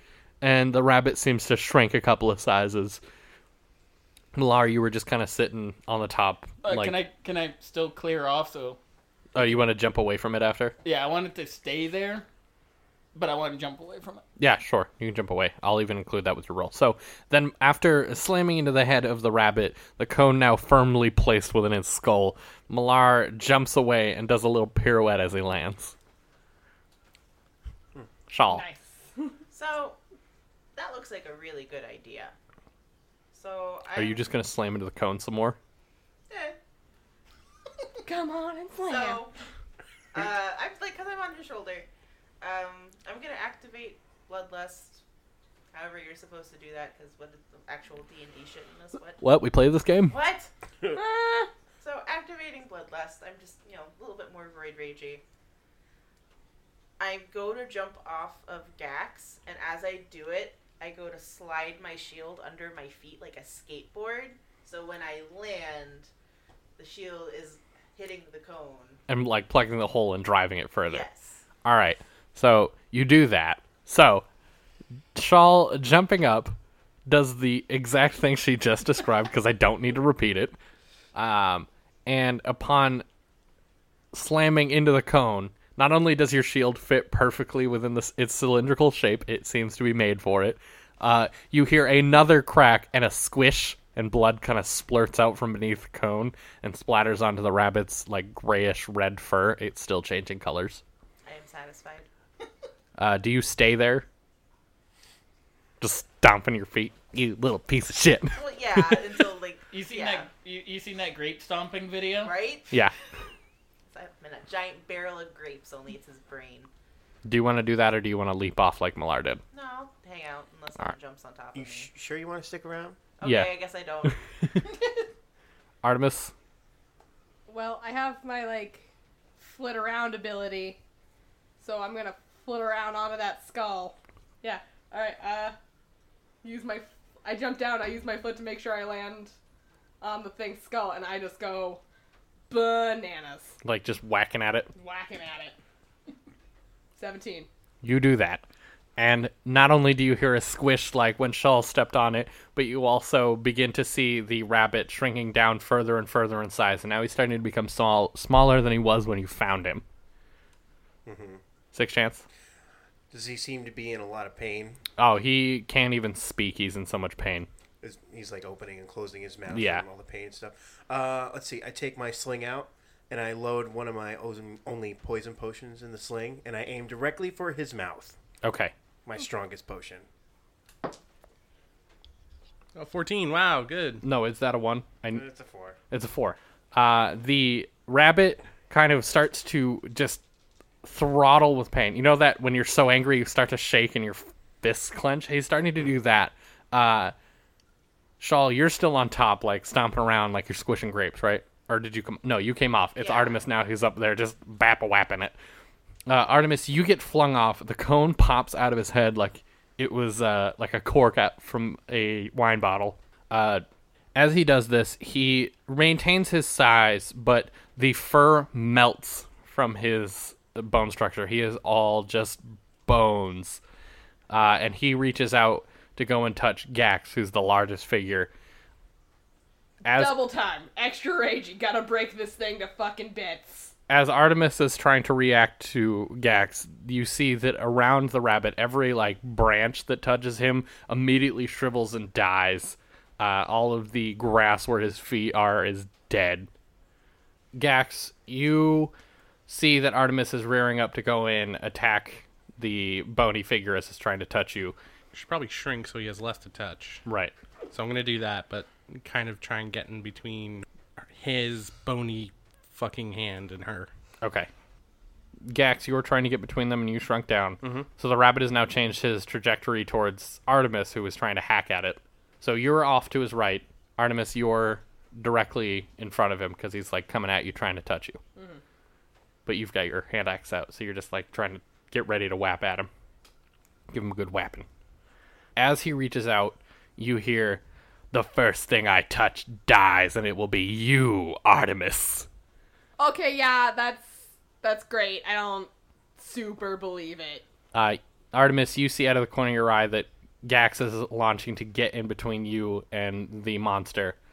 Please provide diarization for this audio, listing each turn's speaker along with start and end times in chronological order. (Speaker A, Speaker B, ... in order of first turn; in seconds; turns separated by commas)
Speaker A: 0.4-3.0, Speaker A: 4.3-7.0, Speaker B: 6.6-8.8, Speaker A: 9.3-10.7, Speaker B: 10.8-12.3, Speaker B: 13.1-14.2, Speaker A: 14.4-25.9, Speaker A: 28.3-28.6, Speaker C: 28.5-29.3, Speaker D: 29.5-30.0, Speaker D: 30.7-32.3, Speaker D: 33.3-34.2, Speaker A: 33.9-35.6, Speaker D: 36.3-36.6, Speaker C: 38.0-39.2, Speaker D: 38.9-39.3, Speaker D: 40.1-41.9, Speaker D: 42.4-45.0, Speaker D: 45.7-49.2, Speaker A: 49.2-50.2, Speaker D: 50.1-50.5, Speaker C: 50.9-51.5, Speaker D: 51.8-55.2, Speaker D: 57.0-66.1, Speaker D: 66.8-69.0, Speaker A: 69.1-71.0, Speaker D: 70.9-71.4, Speaker A: 71.6-74.2, Speaker A: 75.1-76.5, Speaker A: 77.1-80.5, Speaker A: 81.1-83.0, Speaker A: 84.1-100.8, Speaker D: 101.2-102.1, Speaker A: 103.0-104.0, Speaker A: 105.8-109.0, Speaker D: 108.3-110.3, Speaker B: 109.7-112.3, Speaker D: 112.2-112.7, Speaker D: 113.9-116.7, Speaker A: 117.2-119.4, Speaker D: 119.5-121.9, Speaker E: 121.5-123.0, Speaker D: 123.2-124.2, Speaker A: 123.2-123.5, Speaker A: 125.8-126.3, Speaker C: 127.5-128.8, Speaker C: 129.4-130.8, Speaker C: 131.6-135.6, Speaker C: 136.4-139.3, Speaker C: 140.0-141.8, Speaker C: 142.5-143.6, Speaker A: 143.6-144.7, Speaker C: 144.8-145.5, Speaker C: 146.9-147.5, Speaker A: 147.8-148.4, Speaker A: 149.0-159.8, Speaker E: 161.1-161.4, Speaker A: 161.7-162.2, Speaker E: 163.1-164.8, Speaker A: 165.0-167.5, Speaker E: 167.8-178.2, Speaker A: 169.5-169.8, Speaker A: 178.4-178.7, Speaker E: 179.0-180.1, Speaker F: 182.7-184.0, Speaker A: 184.0-185.2, Speaker E: 185.1-185.8, Speaker A: 185.9-190.2, Speaker A: 190.8-197.1, Speaker A: 198.2-205.3, Speaker D: 203.0-203.4, Speaker A: 206.1-213.6, Speaker A: 214.1-223.6, Speaker A: 224.3-228.3, Speaker A: 229.8-230.2, Speaker C: 229.8-233.7, Speaker A: 233.9-246.5, Speaker A: 247.5-248.9, Speaker A: 249.5-254.8, Speaker F: 255.1-257.0, Speaker A: 257.1-257.3, Speaker F: 257.7-263.9, Speaker A: 264.2-264.5, Speaker A: 265.4-278.2, Speaker F: 267.6-267.9, Speaker C: 278.4-278.6, Speaker A: 279.4-282.9, Speaker A: 283.9-284.7, Speaker A: 285.6-292.3, Speaker C: 293.0-297.4, Speaker A: 297.7-304.1